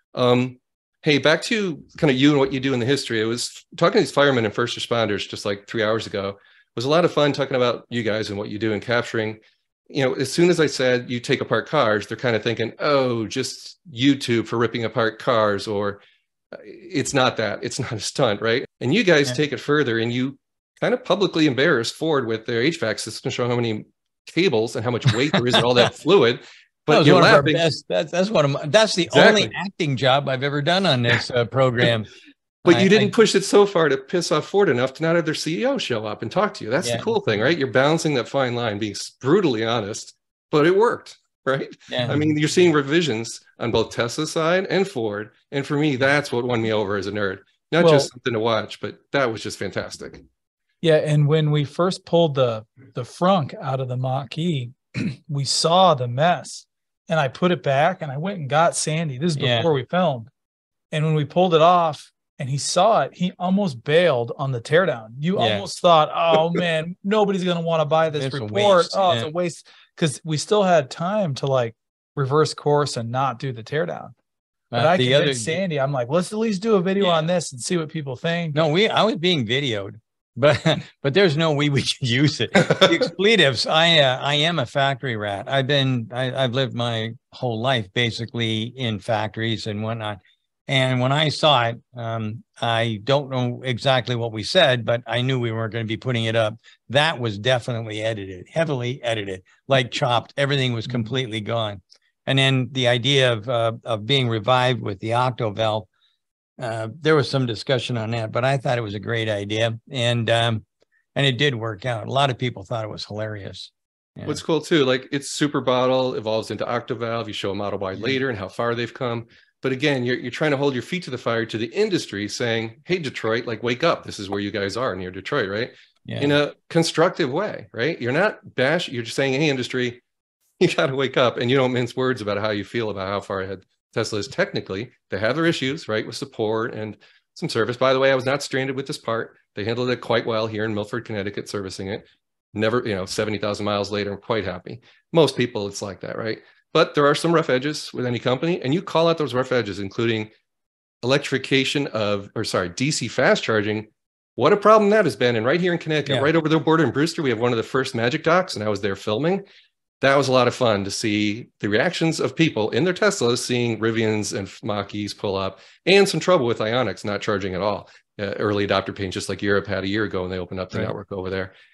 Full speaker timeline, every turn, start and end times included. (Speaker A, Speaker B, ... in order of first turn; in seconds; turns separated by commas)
Speaker A: 0.1-16.0, Speaker A: 16.5-27.6, Speaker B: 26.9-32.1, Speaker A: 29.1-29.5, Speaker B: 32.6-33.1, Speaker A: 32.6-50.2, Speaker B: 36.8-37.2, Speaker B: 41.9-42.3, Speaker C: 47.8-48.1, Speaker C: 50.8-60.3, Speaker B: 59.4-59.7, Speaker C: 60.9-74.1, Speaker B: 65.3-65.7, Speaker B: 68.2-69.3, Speaker B: 74.7-75.6, Speaker C: 74.7-78.6, Speaker B: 78.5-105.9, Speaker B: 106.6-110.6, Speaker B: 111.1-114.4, Speaker A: 114.2-130.0, Speaker B: 126.0-126.3, Speaker A: 130.6-150.3, Speaker A: 151.0-159.4, Speaker B: 156.1-156.3, Speaker A: 160.0-171.5